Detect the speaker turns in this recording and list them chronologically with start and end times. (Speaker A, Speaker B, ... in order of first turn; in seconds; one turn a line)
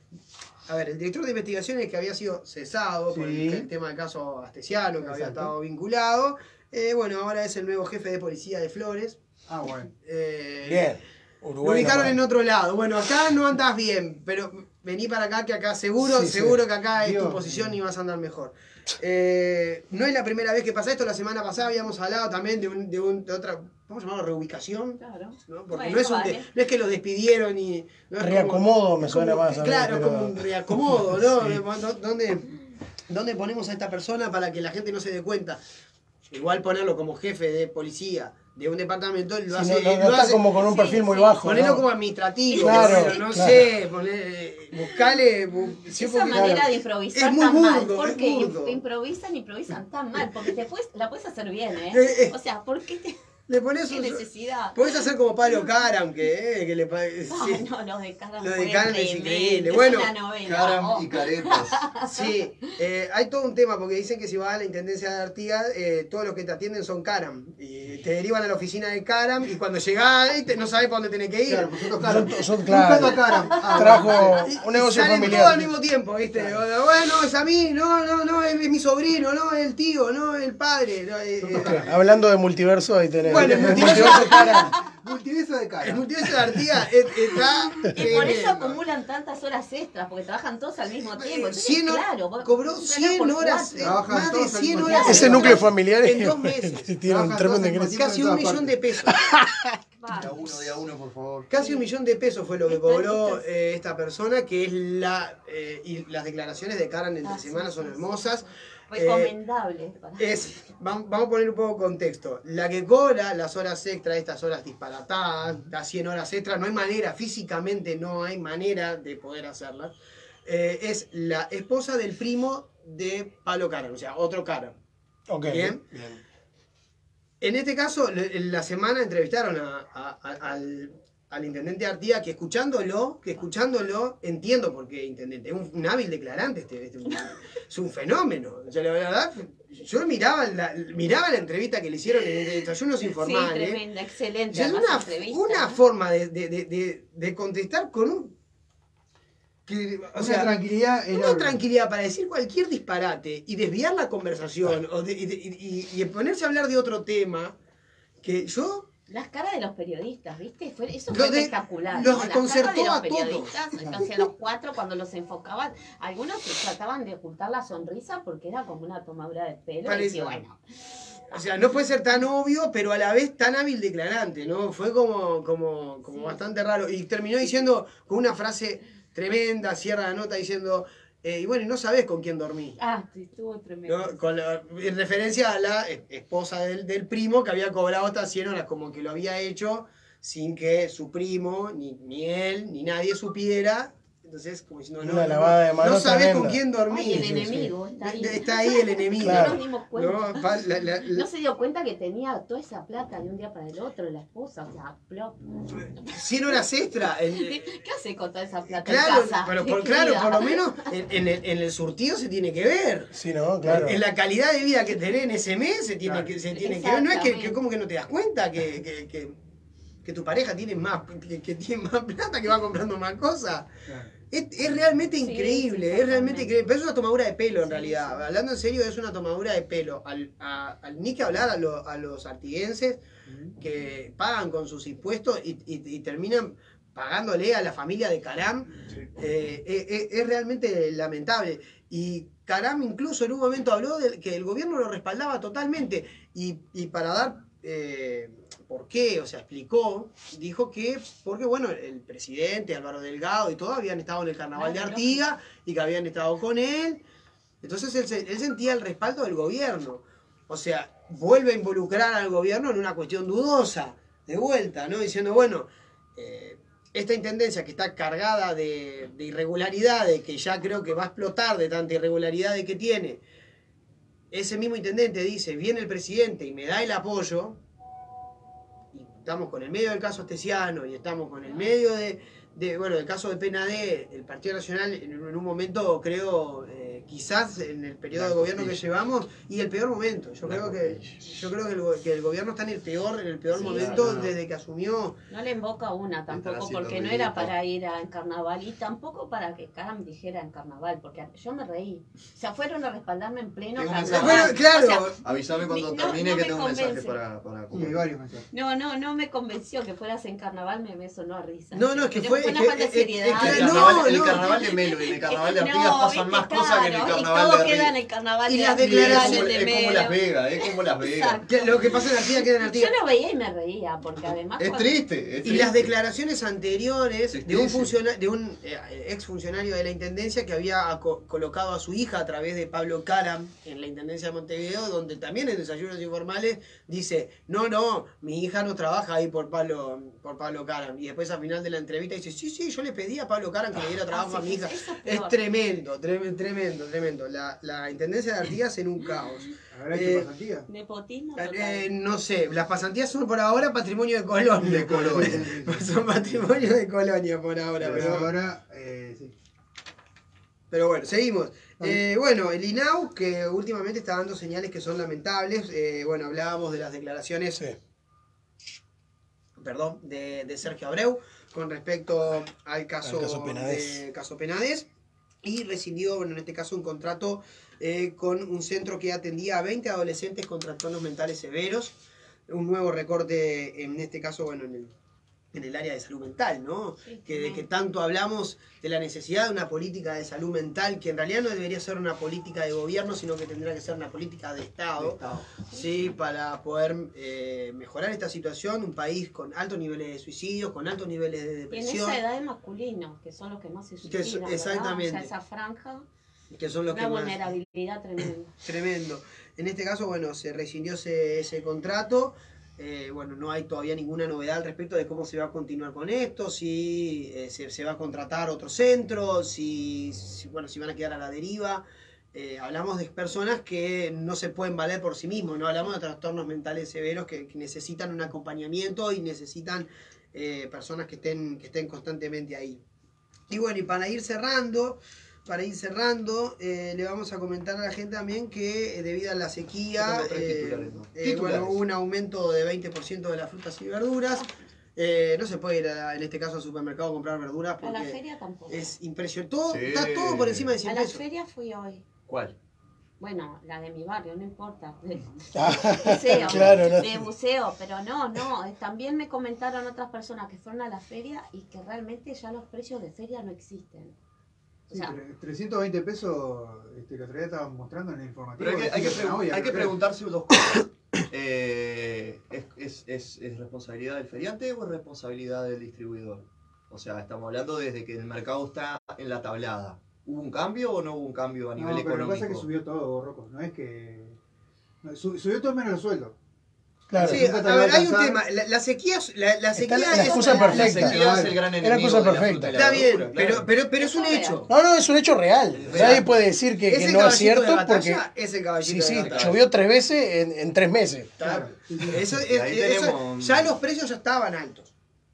Speaker A: 0.7-9.2
Speaker B: 3.1-3.7
Speaker B: 5.0-5.5
Speaker B: 9.5-9.9
Speaker A: 10.0-11.0
Speaker C: 10.7-12.2
Speaker A: 11.6-32.6
Speaker C: 16.2-16.5
Speaker B: 17.0-17.8
Speaker D: 25.0-26.5
Speaker C: 28.2-30.4
Speaker A: 33.1-35.6
Speaker A: 36.3-40.6
Speaker C: 39.5-41.9
Speaker D: 40.5-41.8
Speaker A: 41.4-48.8
Speaker D: 42.5-43.6
Speaker C: 42.5-43.7
Speaker D: 44.8-45.2
Speaker D: 45.9-53.2
Speaker B: 46.3-46.6
Speaker A: 51.9-52.4
Speaker A: 53.5-54.2
Speaker D: 53.9-55.1
Speaker A: 54.8-57.6
Speaker D: 57.3-62.3
Speaker A: 58.4-60.1
Speaker E: 60.5-61.8
Speaker A: 62.0-72.3
Speaker B: 71.5-74.5
Speaker C: 72.1-75.7
Speaker A: 73.7-82.0
Speaker B: 75.2-75.6
Speaker B: 81.4-82.0
Speaker C: 81.6-84.7
Speaker B: 83.2-86.1
Speaker A: 83.3-84.6
Speaker A: 85.8-88.8
Speaker D: 87.9-94.2
Speaker A: 91.2-99.2
Speaker B: 93.8-95.7
Speaker D: 94.7-95.6
Speaker C: 95.0-98.0
Speaker B: 97.1-98.8
Speaker C: 99.1-99.8
Speaker D: 99.9-100.4
Speaker E: 100.1-101.5
Speaker A: 101.5-109.3
Speaker D: 101.5-101.9
Speaker D: 102.7-103.4
Speaker D: 107.2-110.5
Speaker A: 110.2-119.9
Speaker A: 120.5-124.8
Speaker C: 125.3-126.2
Speaker A: 125.5-125.8
Speaker A: 127.4-143.8
Speaker D: 143.0-145.8
Speaker A: 144.5-148.3
Speaker B: 149.7-151.6
Speaker A: 150.1-150.5
Speaker A: 151.1-157.6
Speaker A: 158.2-158.9
Speaker D: 159.1-170.6
Speaker A: 161.1-164.3
Speaker A: 169.8-170.4
Speaker A: 171.3-182.8
Speaker D: 176.1-176.4
Speaker D: 182.8-184.2
Speaker A: 183.8-197.4
Speaker C: 195.0-196.6
Speaker D: 196.9-206.1
Speaker C: 197.1-197.7
Speaker A: 198.0-201.3
Speaker C: 199.2-199.6
Speaker A: 206.0-207.7
Speaker D: 207.3-210.7
Speaker A: 208.8-219.4
Speaker C: 213.2-214.0
Speaker B: 216.0-216.3
Speaker D: 216.5-217.6
Speaker A: 220.0-223.7
Speaker B: 223.9-224.1
Speaker A: 224.3-233.0
Speaker D: 225.2-226.5
Speaker D: 227.6-228.3
Speaker B: 233.3-233.6
Speaker A: 233.6-257.0
Speaker D: 254.6-255.2
Speaker A: 257.6-273.2
Speaker A: 274.3-277.6
Speaker A: 278.9-295.2
Speaker E: 288.1-288.8
Speaker E: 290.4-291.3
Speaker D: 293.5-294.2
Speaker E: 293.5-294.4
Speaker D: 295.3-307.2
Speaker E: 296.3-297.5
Speaker E: 303.8-304.6
Speaker A: 304.1-305.2
Speaker E: 305.2-308.0
Speaker B: 307.7-308.5
Speaker D: 308.5-324.9
Speaker A: 311.7-314.4
Speaker E: 313.3-317.9
Speaker A: 318.5-319.5
Speaker E: 318.8-321.4
Speaker A: 321.5-322.9
Speaker E: 324.6-325.9
Speaker A: 325.4-350.3
Speaker E: 327.3-327.9
Speaker D: 344.1-345.4
Speaker B: 349.7-350.7
Speaker D: 350.7-351.9
Speaker A: 351.4-358.3
Speaker E: 354.6-355.5
Speaker B: 354.8-355.9
Speaker E: 357.8-358.2
Speaker B: 357.9-359.4
Speaker A: 360.7-367.6
Speaker A: 369.6-374.9
Speaker C: 373.1-374.0
Speaker A: 375.4-382.0
Speaker A: 382.5-384.9
Speaker A: 385.5-395.2
Speaker D: 387.0-387.7
Speaker E: 395.0-395.6
Speaker A: 395.7-402.2
Speaker D: 401.7-406.1
Speaker A: 404.0-405.3
Speaker A: 406.5-407.4
Speaker D: 406.9-408.6
Speaker A: 408.6-432.8
Speaker A: 433.5-451.2
Speaker E: 440.0-441.8
Speaker D: 447.8-448.9
Speaker E: 449.7-450.7
Speaker D: 450.8-452.0
Speaker E: 452.3-452.6
Speaker D: 453.2-464.2
Speaker C: 455.5-457.1
Speaker D: 464.9-465.1
Speaker B: 464.9-470.0
Speaker E: 468.6-482.7
Speaker B: 481.8-484.4
Speaker B: 485.0-486.4
Speaker C: 487.1-487.4
Speaker B: 487.2-488.4
Speaker A: 487.2-490.9
Speaker C: 489.8-491.2
Speaker D: 490.1-491.2
Speaker E: 490.2-493.6
Speaker B: 491.0-491.6
Speaker C: 491.8-493.0
Speaker A: 492.7-494.7
Speaker D: 494.0-494.7
Speaker C: 494.7-498.2
Speaker A: 495.8-496.3
Speaker E: 495.9-496.3
Speaker A: 496.9-499.5
Speaker C: 498.8-501.3
Speaker E: 499.1-499.6
Speaker A: 501.4-504.9
Speaker B: 501.4-502.3
Speaker E: 502.3-503.8